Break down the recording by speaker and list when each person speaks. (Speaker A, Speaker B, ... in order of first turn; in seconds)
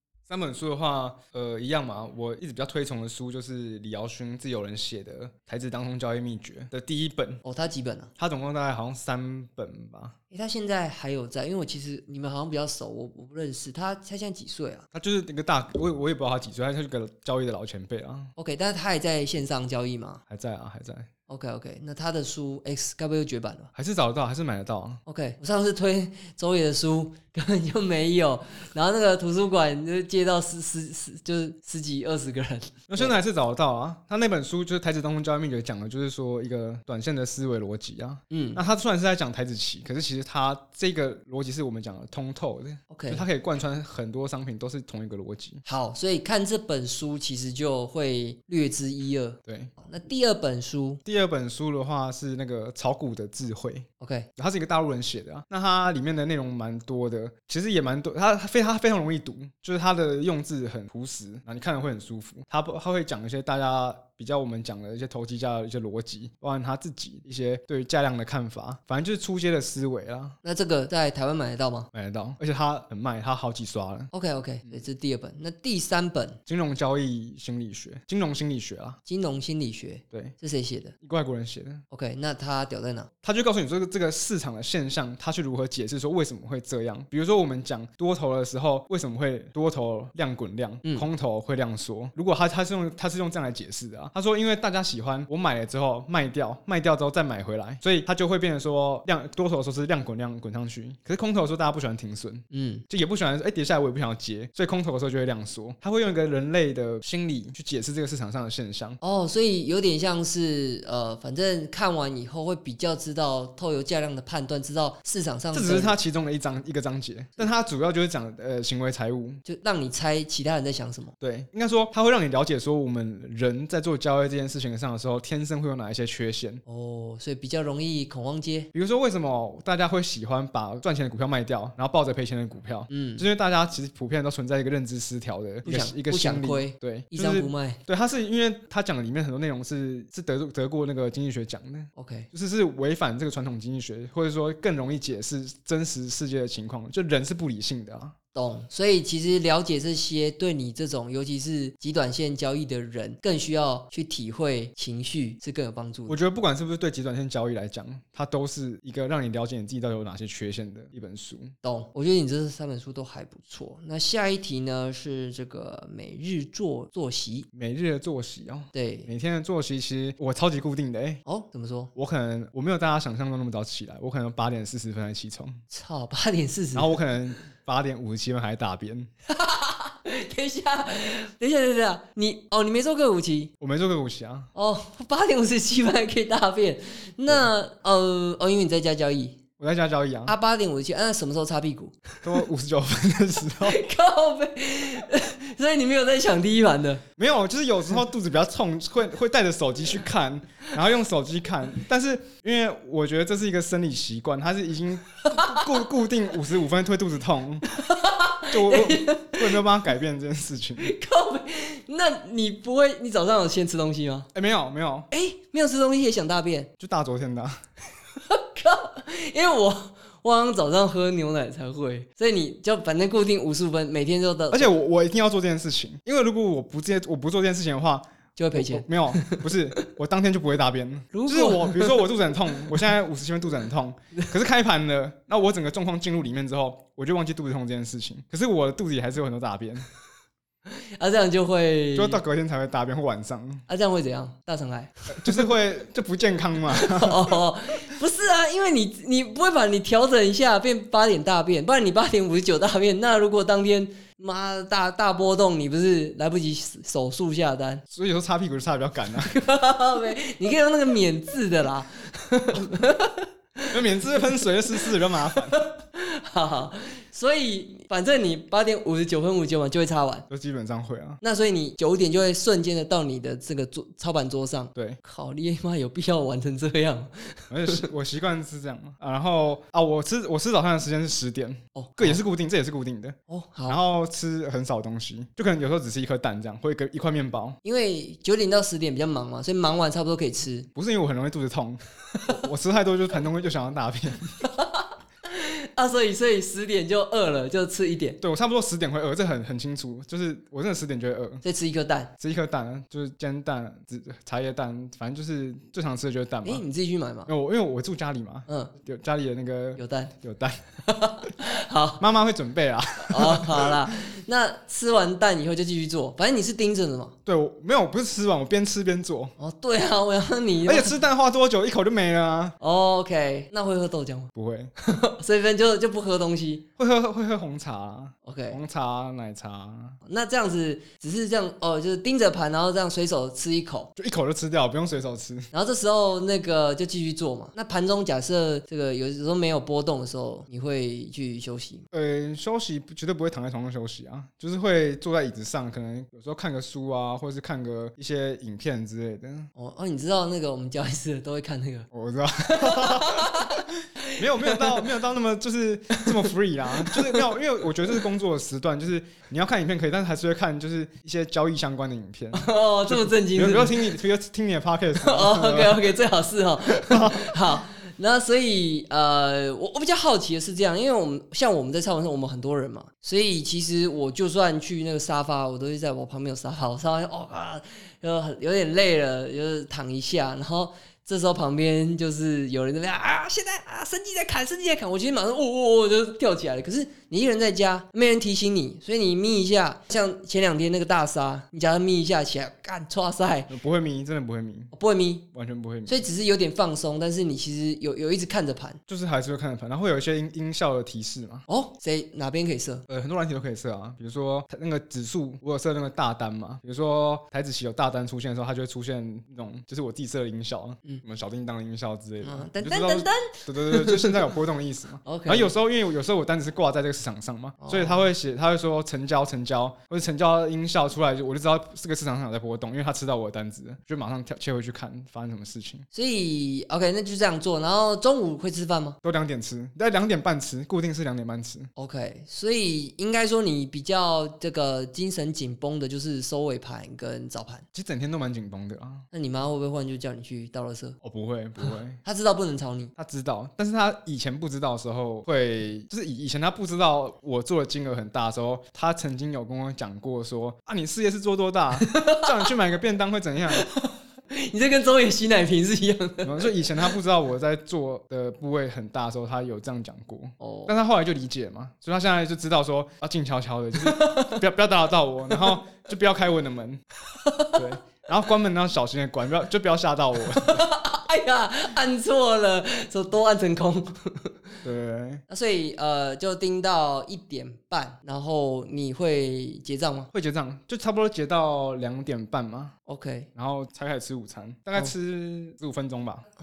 Speaker A: 0.3-7.4, 8.2-10.2, 14.9-18.3, 20.3-21.1, 23.8-25.0, 32.9-45.6, 49.5-49.7, 51.0-70.4, 71.9-74.1, 76.5-79.0, 81.0-81.8, 83.2-109.0, 115.5-119.4, 121.2-126.6, 128.7-148.2, 156.1-161.5, 167.5-171.2, 171.9-175.6, 176.7-179.1, 183.6-184.5, 189.6-190.3, 192.2-193.8, 197.2-207.7, 208.5-210.9, 214.3-215.1, 216.8-217.6, 224.5-239.9, 241.9-243.6, 245.1-247.4, 257.9-259.4, 263.7-265.6, 270.3-271.2, 274.8-275.0, 277.5-283.2, 283.7-287.6, 290.7-294.4, 298.2-301.4, 302.2-306.6, 307.3-310.6, 312.0-313.8, 317.2-319.4, 320.6-322.6, 324.3-324.7, 326.8-330.0, 334.0-335.5, 341.9-349.5, 351.9-366.0, 366.7-367.4, 393.5-394.7, 395.3-396.1, 398.9-401.5, 402.9-425.9, 429.0-431.7, 437.7-439.1, 441.0-442.0, 443.0-453.7, 456.2-466.8, 467.5-470.6, 474.6-475.2, 480.1-482.7, 483.4-486.2
Speaker B: 7.4-8.1, 10.3-14.8, 18.4-20.2, 21.3-23.7, 25.1-33.1, 38.3-38.6, 42.9-43.3, 45.6-51.0, 54.0-54.3, 70.4-71.9, 74.1-76.4, 79.1-80.9, 81.9-83.1, 102.5-102.8, 109.0-116.0, 119.5-121.1, 126.7-128.7, 132.9-133.3, 135.7-137.8, 142.0-142.3, 148.3-156.2, 161.6-167.5, 168.7-169.1, 171.3-171.9, 175.7-177.0, 179.3-183.5, 184.6-189.4, 190.3-192.4, 193.6-197.0, 205.3-205.9, 207.7-209.7, 210.8-214.3, 215.1-216.7, 218.2-224.7, 228.4-229.8, 231.1-232.1, 240.7-242.2, 243.7-245.5, 246.8-257.8, 259.2-270.3, 271.2-277.9, 281.8-282.2, 283.3-283.8, 287.6-290.7, 294.4-298.2, 301.4-302.1, 306.4-307.3, 308.5-308.7, 309.8-310.1, 310.8-312.0, 313.0-317.1, 319.4-321.0, 322.6-326.6, 328.2-328.6, 330.1-333.9, 335.5-341.9, 349.6-351.9, 352.5-355.0, 355.9-357.4, 362.3-363.9, 365.0-393.5, 394.7-395.3, 395.9-398.8, 401.5-402.9, 412.2-414.3, 415.0-415.5, 417.6-418.1, 425.9-429.0, 431.8-437.6, 439.1-441.0, 441.6-442.9, 451.8-452.5, 453.6-456.9, 460.4-460.7, 463.8-464.4, 465.3-465.6, 467.1-467.6, 470.3-474.6, 475.3-480.1, 482.9-483.3